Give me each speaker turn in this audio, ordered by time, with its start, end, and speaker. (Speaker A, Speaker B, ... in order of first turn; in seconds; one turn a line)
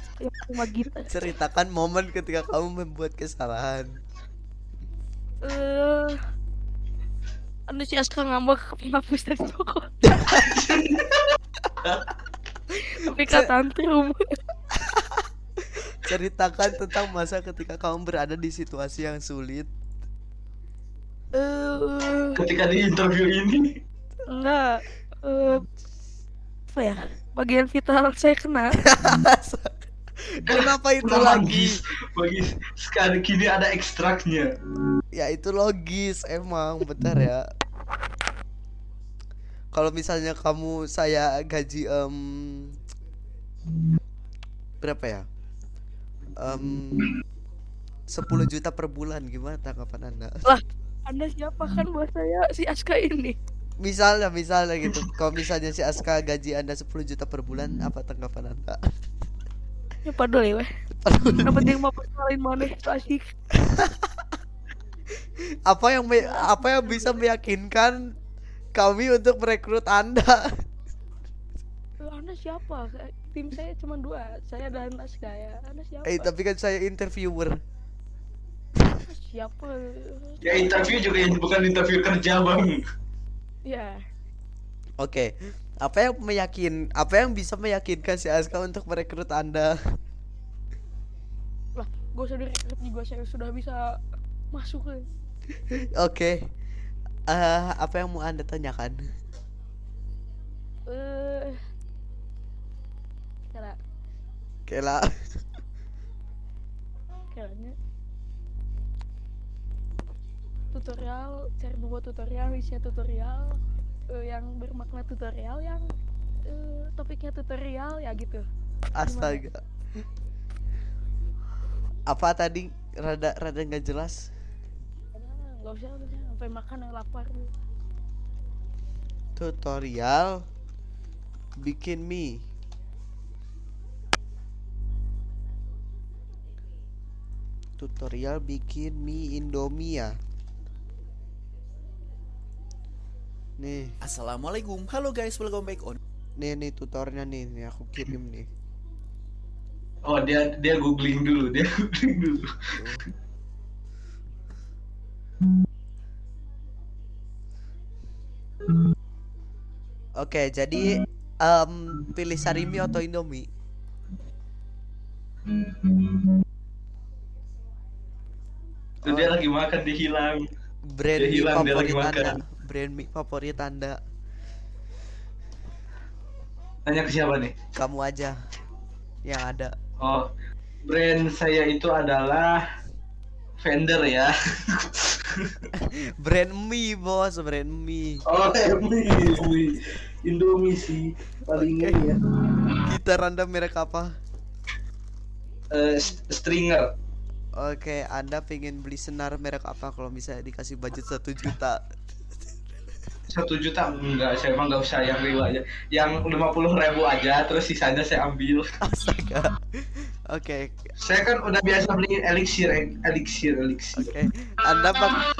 Speaker A: 0.2-1.3
Speaker B: 1.1-4.0
Speaker A: 5.4-6.2
Speaker A: 7.7-9.9
Speaker B: 10.1-10.4
Speaker C: 10.3-12.1
Speaker A: 12.8-14.2
Speaker B: 13.2-13.5
Speaker B: 14.8-15.1
Speaker B: 15.8-19.7
Speaker A: 21.3-22.4
Speaker C: 22.4-23.7
Speaker A: 24.3-25.6
Speaker A: 26.7-28.8
Speaker B: 28.8-29.8
Speaker B: 30.3-31.7
Speaker C: 30.5-34.5
Speaker B: 35.1-37.4
Speaker B: 39.7-42.8
Speaker B: 44.8-45.2
Speaker B: 46.4-47.1
Speaker C: 46.5-46.8
Speaker B: 48.1-50.4
Speaker A: 50.5-53.4
Speaker B: 53.8-58.8
Speaker A: 60.0-60.7
Speaker B: 61.0-61.7
Speaker A: 61.4-63.3
Speaker B: 63.6-64.1
Speaker B: 65.7-68.1
Speaker A: 66.2-67.2
Speaker B: 68.7-70.6
Speaker A: 72.0-76.3
Speaker B: 76.0-77.6
Speaker A: 79.1-80.4
Speaker C: 80.4-82.8
Speaker A: 83.6-84.0
Speaker B: 85.0-89.9
Speaker A: 91.8-93.8
Speaker A: 94.5-95.1
Speaker B: 95.9-96.4
Speaker B: 97.3-99.0
Speaker A: 100.9-101.6
Speaker B: 104.7-105.1
Speaker A: 107.3-107.7
Speaker A: 110.7-113.6
Speaker A: 114.1-115.9
Speaker A: 116.5-118.4
Speaker B: 119.0-119.6
Speaker A: 119.0-119.4
Speaker B: 122.1-124.3
Speaker A: 125.1-127.5
Speaker B: 129.4-130.4
Speaker B: 131.6-132.4
Speaker B: 137.8-140.1
Speaker B: 143.6-143.9
Speaker D: 144.0-146.0
Speaker B: 146.4-148.5
Speaker C: 150.1-152.7
Speaker B: 152.7-153.0
Speaker B: 160.2-163.5
Speaker C: 165.5-166.3
Speaker B: 169.0-169.3
Speaker C: 169.1-170.4
Speaker B: 170.9-174.0
Speaker C: 171.2-172.4
Speaker C: 176.8-177.6
Speaker B: 177.8-178.3
Speaker B: 179.2-179.7
Speaker C: 180.0-180.3
Speaker C: 180.9-182.6
Speaker C: 183.6-185.6
Speaker B: 185.8-188.2
Speaker C: 188.2-192.7
Speaker B: 191.5-192.1
Speaker B: 192.8-194.1
Speaker C: 195.7-196.8
Speaker B: 197.6-201.8
Speaker C: 203.3-208.7
Speaker B: 208.8-209.6
Speaker B: 210.3-210.8
Speaker C: 211.0-214.2
Speaker B: 213.9-215.2